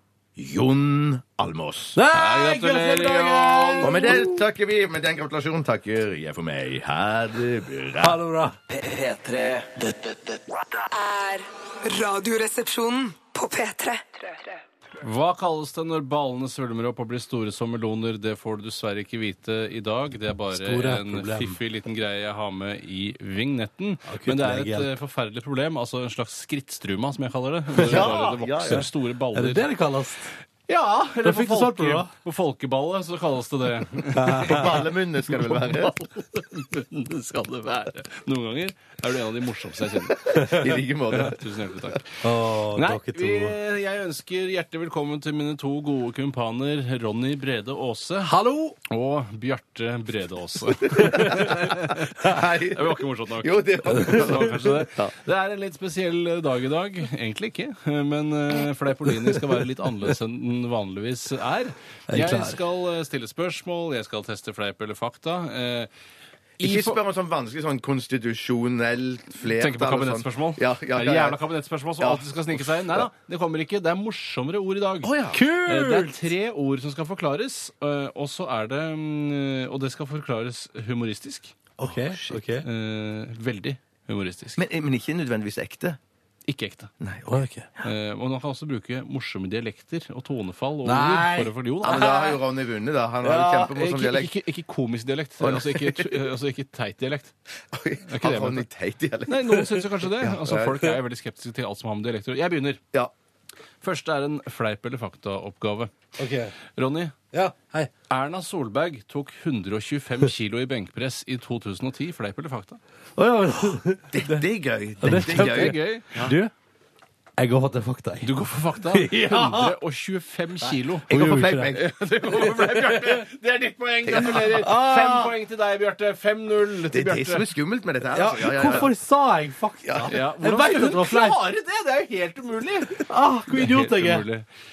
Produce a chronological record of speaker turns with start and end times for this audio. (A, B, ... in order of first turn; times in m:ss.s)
0:00.4-0:02.0 A
0:02.0-0:04.4 B
0:02.1-0:04.2 C
0:03.8-0:08.2 A
0:08.0-0:10.1 B
0:10.8-0:14.6 D
0:15.0-0:29.7 C
0:20.5-0:21.6 B
0:24.1-0:24.9 B
0:27.8-0:28.1 B
0:27.8-0:28.9 A
0:29.4-0:30.3 B
0:30.7-0:40.2 C
0:31.2-0:32.1 B
0:34.2-0:34.7 B
0:34.2-0:35.9 A
0:40.1-0:41.4 A
0:40.3-0:40.8 B
0:41.1-0:42.2 C
0:42.2-0:43.6 B
0:42.7-0:48.4 C
0:48.2-0:48.8 B
0:48.9-1:05.9 C
0:50.8-0:55.1 A
0:51.0-0:51.5 B
1:02.1-1:02.6 B
1:06.6-1:07.0 C
1:06.6-1:11.4 A
1:09.5-1:21.6 C
1:12.0-1:13.1 A
1:15.0-1:15.4 A
1:15.3-1:16.3 B
1:21.8-1:22.6 B
1:21.8-1:22.4 A
1:22.6-1:24.6 C
1:24.6-1:26.0 A
1:26.5-1:26.9 C
1:27.0-1:27.9 A
1:27.3-1:27.7 B
1:27.8-1:32.1 C
1:30.8-1:32.4 B
1:31.8-1:34.3 A
1:33.2-1:37.3 C
1:35.4-1:36.1 A
1:37.7-1:40.9 A
1:38.1-1:38.6 C
1:39.3-1:42.8 C
1:43.8-1:45.9 C
1:46.2-1:46.5 B
1:46.8-1:47.2 C
1:47.3-1:47.9 B
1:48.1-1:52.8 C
1:53.2-1:54.4 B
1:54.1-1:55.8 A
1:55.0-1:56.5 B
1:55.1-1:56.3 C
1:57.4-1:58.3 B
1:58.2-2:01.1 C
1:58.9-1:59.8 B
2:01.1-2:01.9 A
2:01.1-2:01.8 B
2:01.7-2:07.5 C
2:02.6-2:03.2 B
2:04.1-2:04.7 A
2:04.3-2:05.3 B
2:06.9-2:08.9 A
2:08.1-2:11.4 B
2:09.8-2:10.1 A
2:10.1-2:14.5 C
2:13.0-2:14.3 B